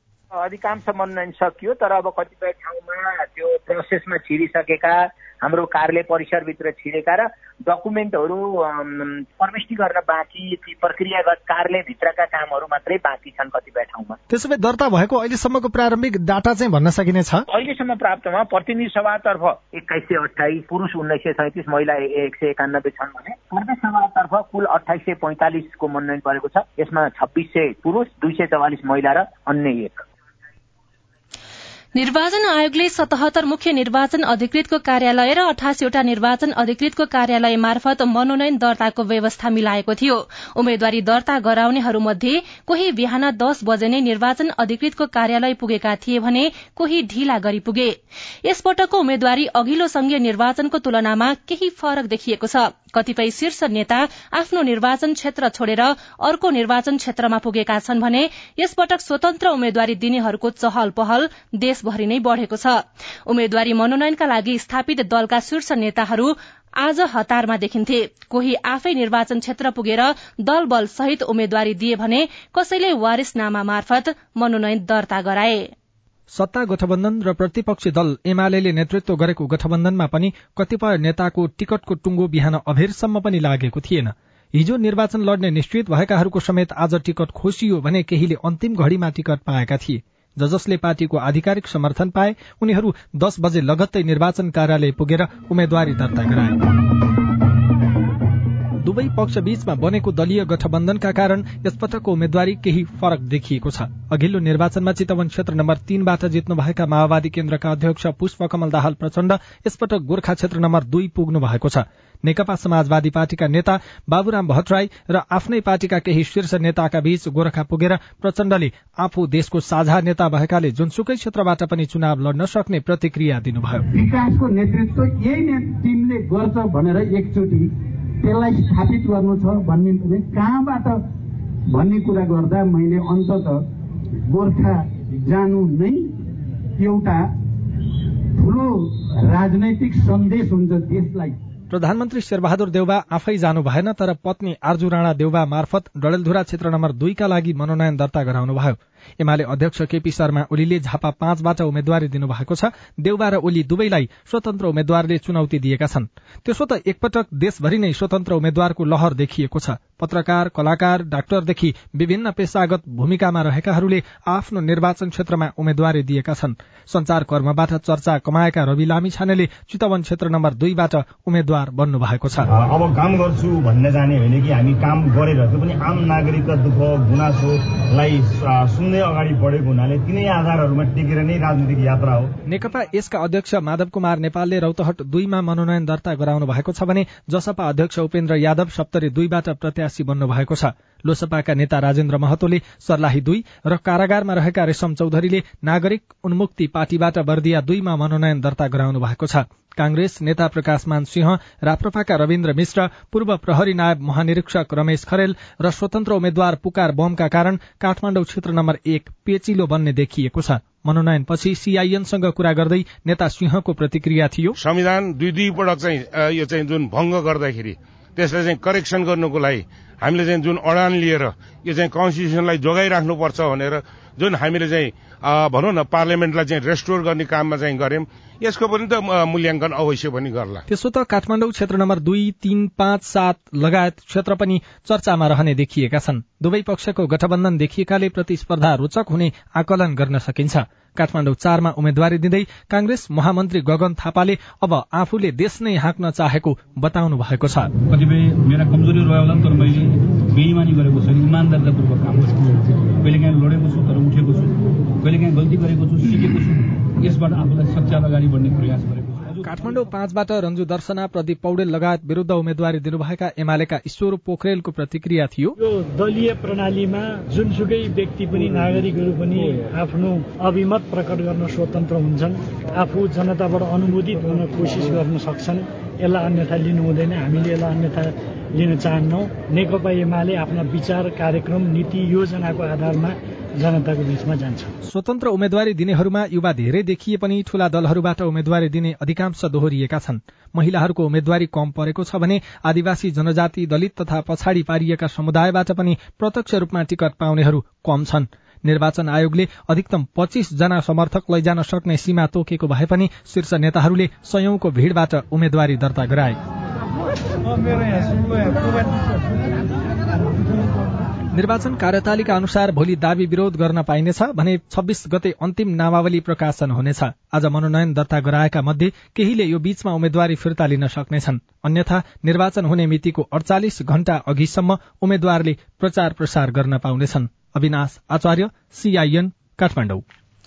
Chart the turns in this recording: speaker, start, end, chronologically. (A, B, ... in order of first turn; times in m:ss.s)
0:00.4-0:14.2 A
0:14.3-0:17.4 B
0:17.5-0:30.0 A
0:32.0-0:47.9 C
0:48.5-1:15.7 C
1:16.3-1:36.6 B
1:38.8-2:03.8 B
2:03.9-2:11.0 D
2:11.7-2:13.6 D
2:14.3-2:16.1 D
2:16.8-2:17.2 D
2:18.4-2:21.4 D
2:21.7-2:52.5 B
2:52.5-3:02.4 E
3:02.5-3:34.6 B
3:34.6-3:50.6 F
3:50.7-4:07.7 B
4:08.7-4:09.7 G
4:11.2-4:12.2 G
4:19.4-4:25.6 B
4:25.6-4:44.7 H
4:44.9-5:06.4 B
5:11.3-5:30.0 B